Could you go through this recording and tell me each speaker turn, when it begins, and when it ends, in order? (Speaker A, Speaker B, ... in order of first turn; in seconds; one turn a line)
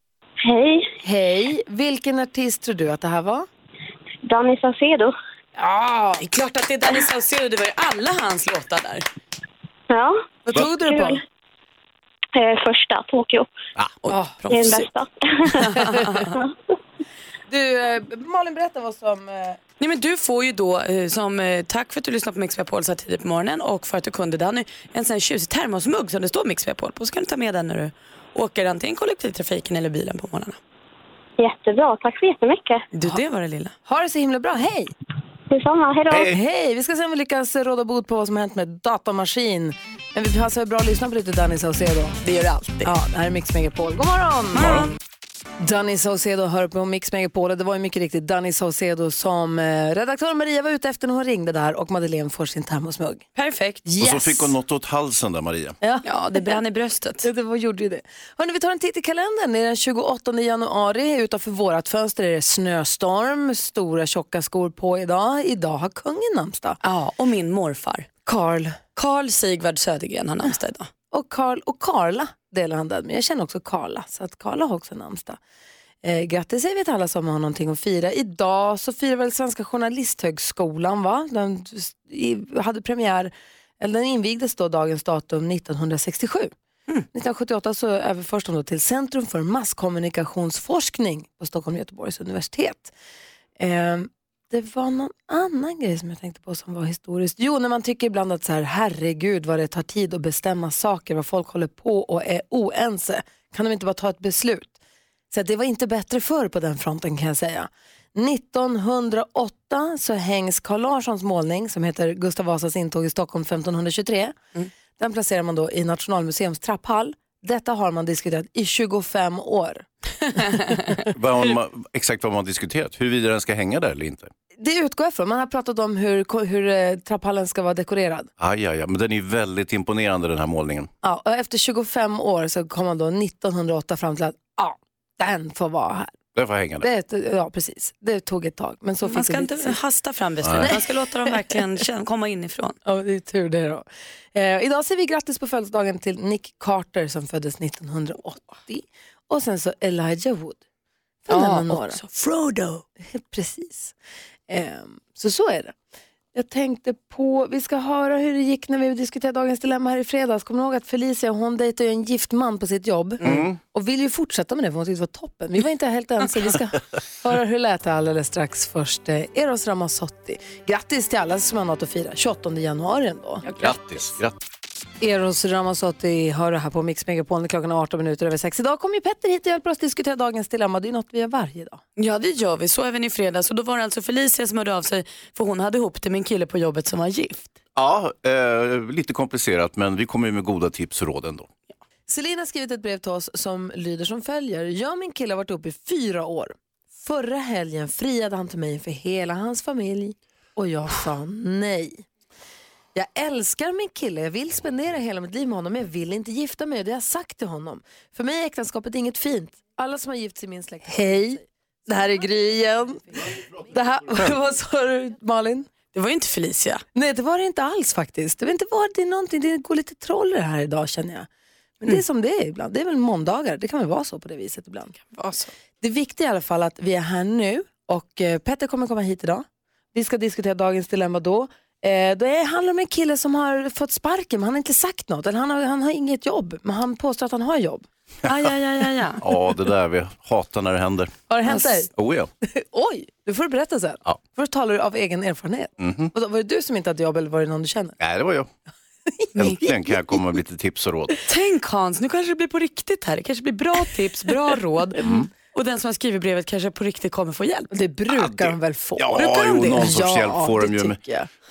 Speaker A: 0.5-0.9
Speaker B: 1.0-3.5
Speaker A: 4.2-5.1
Speaker B: 5.6-6.2
Speaker C: 6.2-9.1
Speaker A: 9.9-10.2
Speaker B: 10.5-11.2
Speaker A: 10.8-11.2
Speaker A: 12.3-13.5
Speaker C: 13.8-14.9
Speaker B: 14.1-14.4
Speaker A: 14.5-15.6
Speaker C: 15.5-16.4
Speaker B: 15.7-16.1
Speaker B: 17.5-19.6
Speaker C: 19.8-30.6
Speaker A: 31.4-32.8
Speaker C: 32.9-33.7
Speaker B: 33.8-34.9
Speaker A: 35.5-36.2
Speaker D: 36.1-36.4
Speaker B: 36.2-42.2
Speaker C: 42.2-42.9
Speaker B: 42.8-44.8
Speaker D: 44.6-44.9
Speaker C: 44.6-44.9
Speaker B: 45.6-53.2
Speaker C: 53.3-53.8
Speaker B: 53.8-54.5
Speaker D: 54.0-55.8
Speaker B: 55.8-56.6
Speaker C: 56.0-57.2
Speaker B: 57.2-66.8
Speaker C: 66.8-68.1
Speaker B: 68.2-68.8
Speaker C: 68.9-70.9
Speaker B: 71.1-75.4
Speaker B: 76.0-86.5
Speaker B: 87.1-92.9
Speaker B: 93.6-104.8
Speaker B: 105.3-114.4
Speaker B: 115.0-120.9
Speaker C: 120.3-120.9
Speaker D: 121.1-124.3
Speaker B: 124.6-128.3
Speaker D: 128.4-130.9
Speaker B: 131.0-136.1
Speaker D: 136.3-136.9
Speaker B: 136.8-139.8
Speaker C: 139.1-142.8
Speaker B: 142.8-150.6
Speaker B: 151.2-152.0
Speaker C: 151.3-152.8
Speaker B: 153.0-153.9
Speaker B: 154.5-155.8
Speaker B: 156.3-173.5
Speaker D: 163.2-163.6
Speaker C: 173.4-173.8
Speaker D: 173.6-174.3
Speaker B: 175.0-181.8
Speaker C: 182.0-187.5
Speaker D: 187.8-191.5
Speaker B: 192.1-202.1
Speaker B: 202.9-215.7
Speaker C: 215.9-216.8
Speaker B: 216.9-221.3
Speaker B: 221.8-224.9
Speaker C: 225.1-225.5
Speaker B: 225.8-237.9
Speaker C: 238.2-239.2
Speaker D: 239.2-241.3
Speaker B: 241.3-241.9
Speaker D: 241.9-242.3
Speaker B: 242.4-247.9
Speaker D: 245.8-246.1
Speaker D: 248.0-248.5
Speaker B: 249.2-250.2
Speaker D: 249.3-251.2
Speaker C: 251.3-255.0
Speaker D: 255.0-255.3
Speaker C: 255.5-257.7
Speaker B: 257.7-261.3
Speaker D: 258.1-261.0
Speaker C: 259.2-259.8